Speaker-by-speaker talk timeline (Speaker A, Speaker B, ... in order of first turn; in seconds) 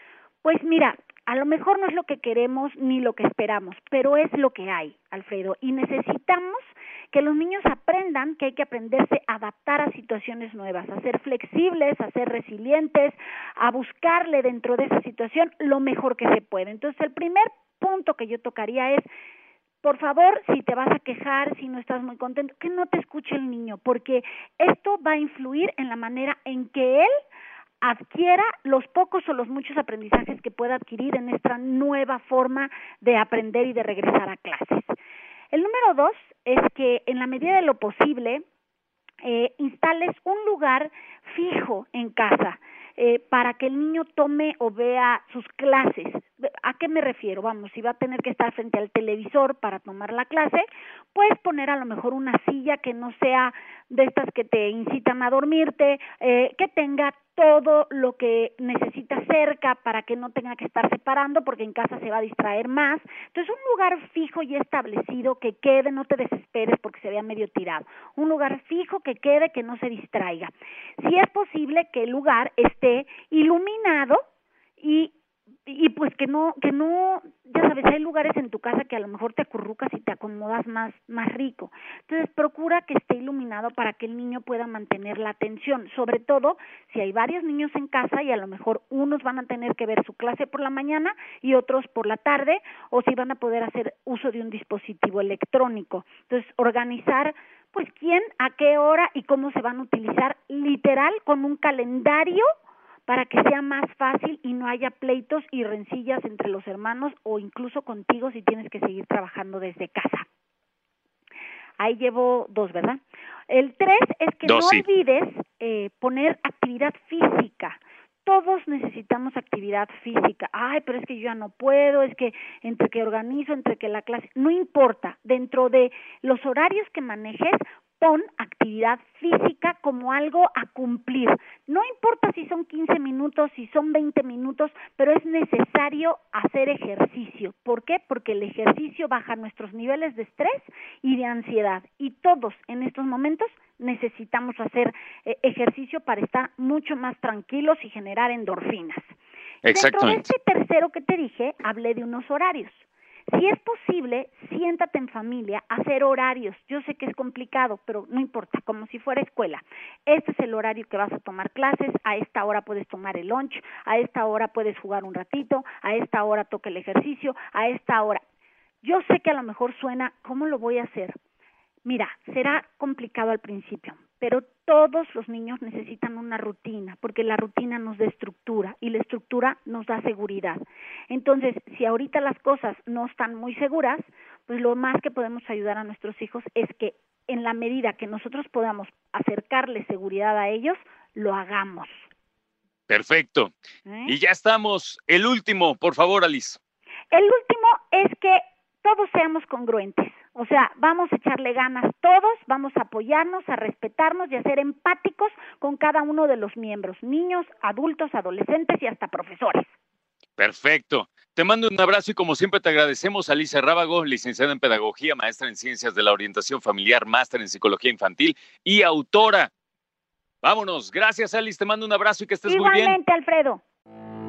Speaker A: 0.4-19.1, 19.8-27.1, 27.8-34.9, 35.5-38.4, 39.2-74.2, 74.8-75.1, 75.7-102.4, 103.1-110.3, 111.8-149.0, 149.7-168.2, 168.8-171.2, 171.8-192.1, 193.8-194.1, 197.1-209.7, 222.5-223.6
Speaker B: 114.4-114.8, 149.6-150.3, 192.9-193.5, 194.1-196.6, 210.4-219.5, 220.4-223.0